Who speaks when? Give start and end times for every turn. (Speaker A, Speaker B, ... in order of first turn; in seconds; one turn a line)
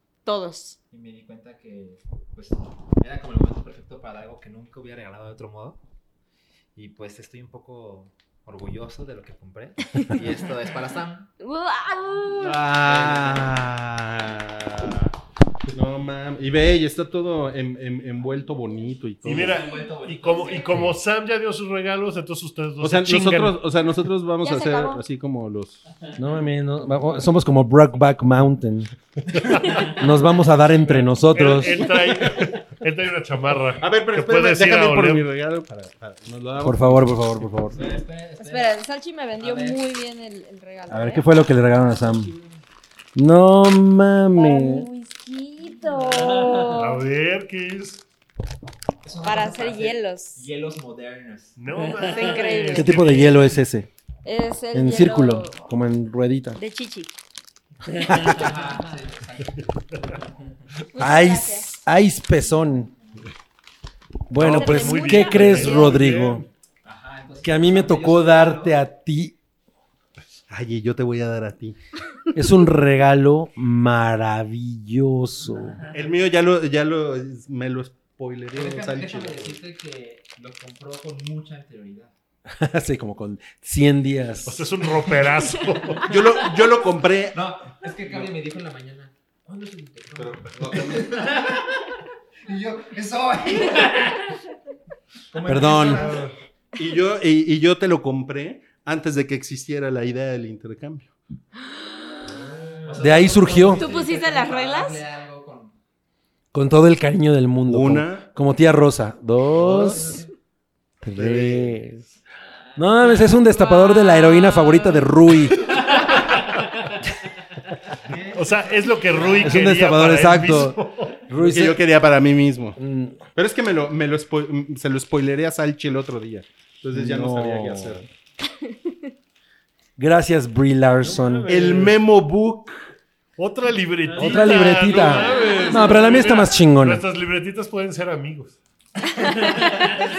Speaker A: 0.3-0.8
Speaker B: 0.9-5.8
Speaker B: 6.8-11.3
Speaker A: 11.4-12.6
Speaker C: 12.4-15.1
Speaker B: 12.7-13.6
Speaker C: 15.7-19.6
Speaker B: 19.2-21.0
Speaker D: 19.2-23.6
Speaker C: 22.8-25.8
Speaker A: 24.4-25.0
Speaker E: 26.2-28.9
Speaker D: 29.4-29.9
Speaker E: 29.5-32.0
Speaker D: 31.0-35.3
Speaker C: 33.8-37.5
Speaker E: 36.6-38.0
Speaker B: 37.7-38.8
Speaker A: 38.4-41.4
Speaker B: 39.4-39.8
Speaker E: 40.9-42.3
Speaker B: 41.5-42.6
Speaker E: 43.2-44.9
Speaker A: 44.4-47.0
Speaker D: 46.7-48.0
Speaker B: 49.0-51.6
Speaker A: 49.2-50.4
Speaker D: 51.6-53.6
Speaker A: 52.0-53.0
Speaker E: 52.7-53.9
Speaker A: 54.2-55.6
Speaker E: 54.7-56.6
Speaker A: 56.6-57.1
Speaker B: 58.1-59.7
Speaker A: 60.9-61.8
Speaker E: 61.0-62.9
Speaker B: 62.4-63.3
Speaker E: 64.3-66.5
Speaker D: 64.3-66.5
Speaker A: 64.5-66.0
Speaker B: 66.8-68.8
Speaker E: 67.4-69.4
Speaker C: 70.5-71.8
Speaker E: 72.3-75.8
Speaker B: 75.6-75.9
Speaker C: 75.9-79.6
Speaker B: 78.5-82.1
Speaker E: 82.5-84.9
Speaker D: 84.5-86.2
Speaker C: 86.0-87.4
Speaker B: 87.3-91.8
Speaker C: 90.2-91.3
Speaker B: 92.5-94.2
Speaker B: 95.3-96.3
Speaker E: 95.5-96.2
Speaker C: 96.8-101.1
Speaker B: 102.3-105.8
Speaker E: 103.0-103.9
Speaker A: 103.8-105.0
Speaker E: 106.5-110.2
Speaker C: 107.7-108.3
Speaker B: 109.5-110.3
Speaker E: 111.0-112.0
Speaker C: 111.2-111.8
Speaker E: 112.8-115.8
Speaker A: 113.5-115.0
Speaker B: 118.0-119.7
Speaker D: 118.3-121.3
Speaker E: 119.4-121.8
Speaker C: 121.4-122.8
Speaker E: 122.8-123.2
Speaker C: 123.3-128.0
Speaker E: 126.9-128.1
Speaker E: 130.0-131.5
Speaker D: 131.0-132.0
Speaker C: 131.5-132.9
Speaker D: 133.4-138.6
Speaker E: 134.1-137.0
Speaker A: 139.2-140.1